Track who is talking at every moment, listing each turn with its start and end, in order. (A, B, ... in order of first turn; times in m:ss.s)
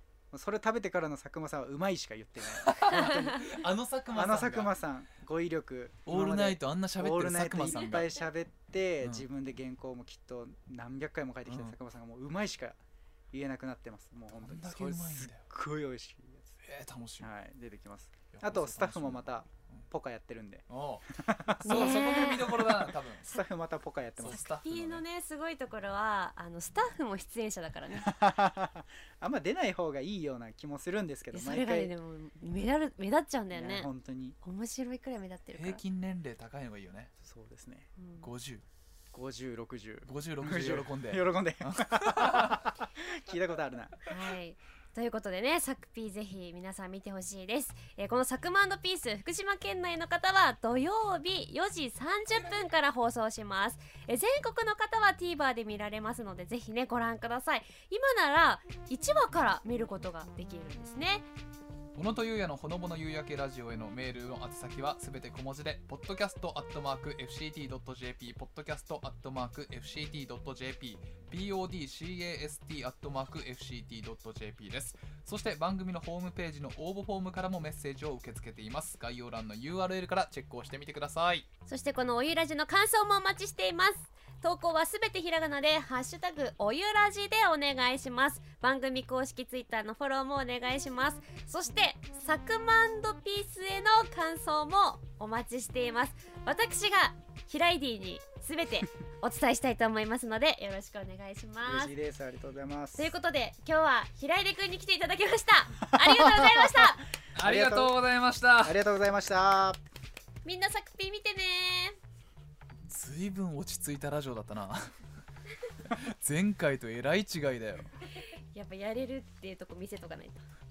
0:00.3-0:12.8 A
0:02.6-0:04.7 B
0:06.0-0:08.1 B
0:09.0-0:09.2 B
0:11.4-0:11.8 B
0:13.3-0:16.6 A
0:14.3-0:15.4 B
0:16.6-0:17.3 B
0:17.2-0:22.1 A
0:18.3-0:19.9 B
0:20.7-0:23.2 B
0:21.6-0:23.4 C
0:23.3-0:24.4 A
0:24.2-0:25.0 B
0:24.2-0:28.1 C
0:27.9-0:31.9 A
0:31.3-0:33.9 C
0:33.5-0:34.4 A
0:34.4-0:35.8 C
0:35.6-0:37.1 B
0:37.2-0:37.9 A
0:38.0-0:38.3 C
0:38.2-0:38.6 B
0:39.1-0:44.1 A
0:40.0-0:42.6 B
0:44.1-1:01.3 C
1:01.9-1:21.4 B
1:21.6-1:41.9 C
1:41.6-1:43.1 A
1:43.0-1:47.1 C
1:46.1-1:46.6 A
1:47.3-1:48.8 B
1:47.4-1:47.9 A
1:48.6-1:49.8 A
1:50.4-1:52.0 C
1:52.9-1:54.9 B
1:55.8-1:57.9 B
1:58.5-2:00.4 C